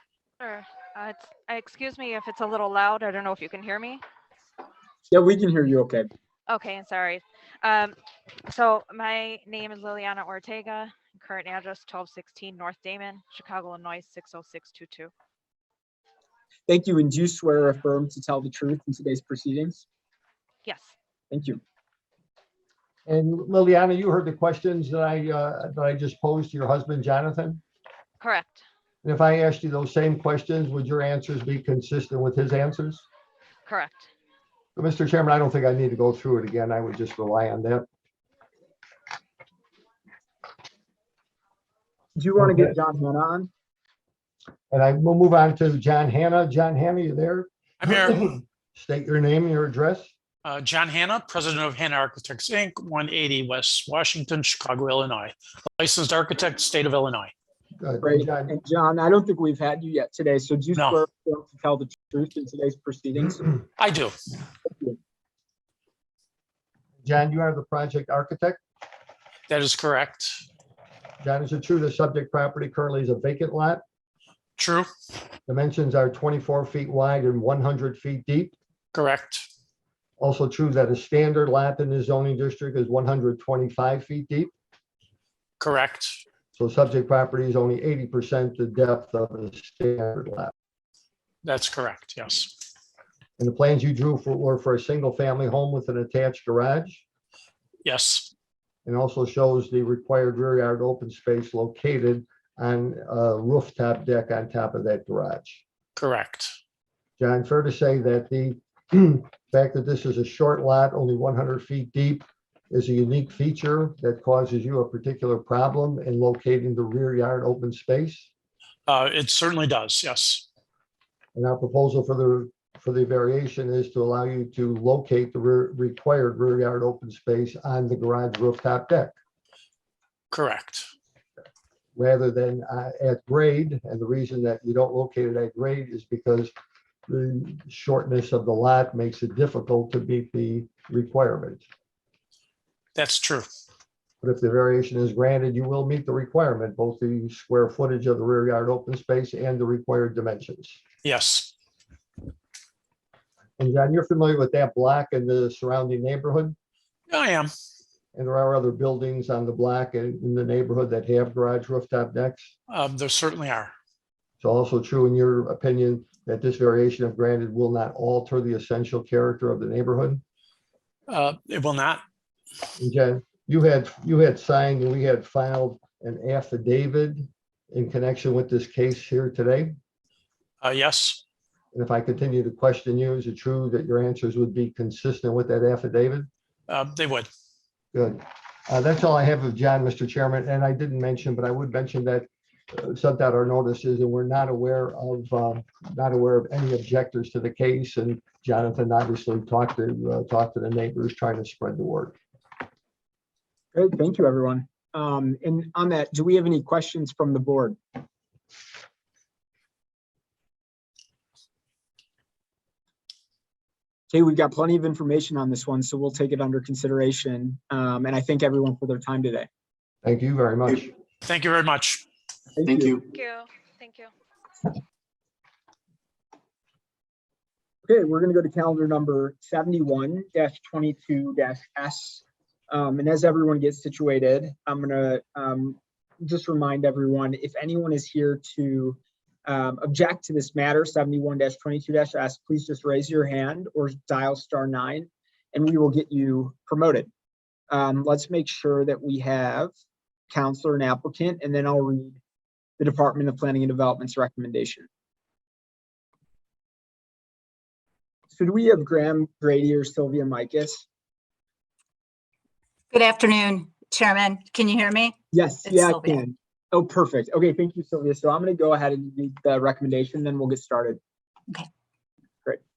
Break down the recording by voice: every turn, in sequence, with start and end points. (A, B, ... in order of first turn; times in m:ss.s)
0:00.4-0:04.0 A
0:05.1-0:06.1 B
0:06.5-0:08.0 A
0:08.5-0:15.1 A
0:16.7-0:19.8 B
0:20.6-0:20.9 A
0:21.3-0:21.6 B
0:23.1-0:27.6 C
0:28.2-0:28.6 A
0:29.0-0:33.0 C
0:33.7-0:34.1 A
0:34.8-0:37.9 C
0:42.2-0:43.5 B
0:42.4-0:42.7 C
0:44.7-0:50.1 C
0:47.8-0:48.3 D
0:50.4-0:57.3 D
0:57.8-0:58.5 C
0:58.0-1:03.6 B
1:03.8-1:04.2 D
1:04.7-1:05.0 B
1:07.0-1:08.6 C
1:09.5-1:10.4 D
1:11.2-1:13.8 C
1:14.6-1:14.9 D
1:15.5-1:18.6 C
1:18.9-1:19.5 D
1:20.2-1:24.5 C
1:25.6-1:26.2 D
1:26.6-1:30.5 C
1:31.4-1:32.6 D
1:33.4-1:37.0 C
1:37.8-1:38.3 D
1:38.9-1:45.6 C
1:46.0-1:46.6 D
1:47.2-1:58.3 C
1:58.9-2:00.5 D
2:01.4-2:09.1 C
2:10.3-2:10.9 D
2:12.0-2:16.5 C
2:17.1-2:21.6 C
2:23.0-2:23.5 D
2:24.2-2:30.8 C
2:31.0-2:31.5 D
2:33.6-2:36.6 C
2:37.1-2:37.5 D
2:38.2-2:42.5 C
2:42.7-2:43.7 D
2:44.4-2:50.2 C
2:51.1-2:52.0 D
2:52.8-2:59.8 C
3:00.6-3:01.2 D
3:01.7-3:06.3 C
3:06.7-3:07.3 D
3:07.9-3:22.2 C
3:23.7-3:27.8 B
3:34.1-3:39.5 B
3:40.0-3:40.9 C
3:41.2-3:42.0 D
3:42.6-3:43.0 B
3:43.1-3:44.1 A
3:47.9-4:07.1 B
4:07.7-4:09.7 B
4:10.3-4:12.2 B
4:12.8-4:14.9 B
4:18.3-4:20.8 B
4:22.9-4:26.2 E
4:25.3-4:31.0 B